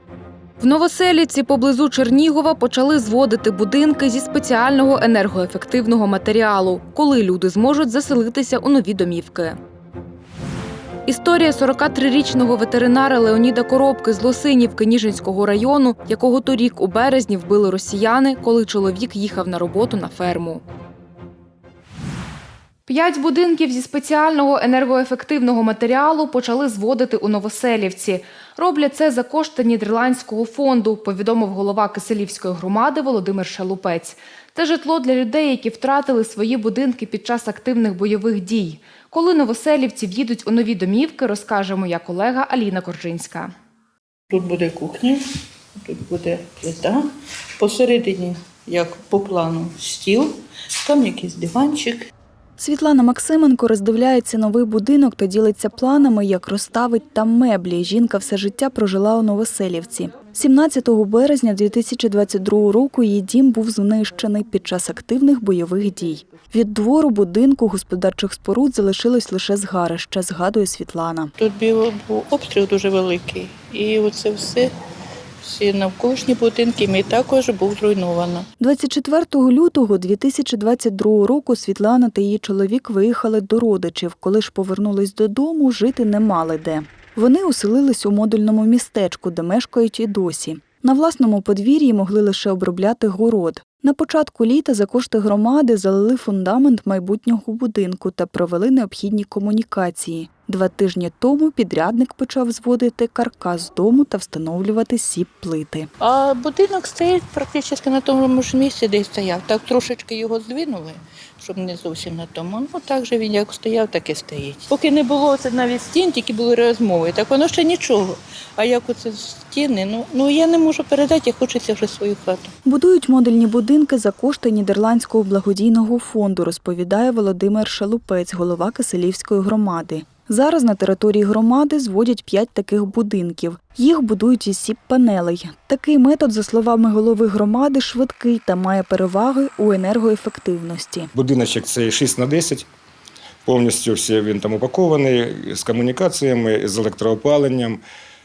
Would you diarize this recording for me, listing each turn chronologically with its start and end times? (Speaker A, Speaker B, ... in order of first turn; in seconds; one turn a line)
Speaker A: 0.6-9.6
Speaker A: 11.1-20.6
Speaker A: 22.9-43.5
Speaker B: 44.3-45.2
Speaker B: 45.9-47.0
Speaker B: 47.6-52.1
Speaker C: 52.6-71.3
Speaker B: 71.4-74.7
Speaker B: 75.4-78.5
Speaker C: 78.6-105.9
Speaker B: 106.0-122.5
Speaker C: 122.7-141.1
Speaker D: 141.2-142.7
Speaker D: 143.5-147.8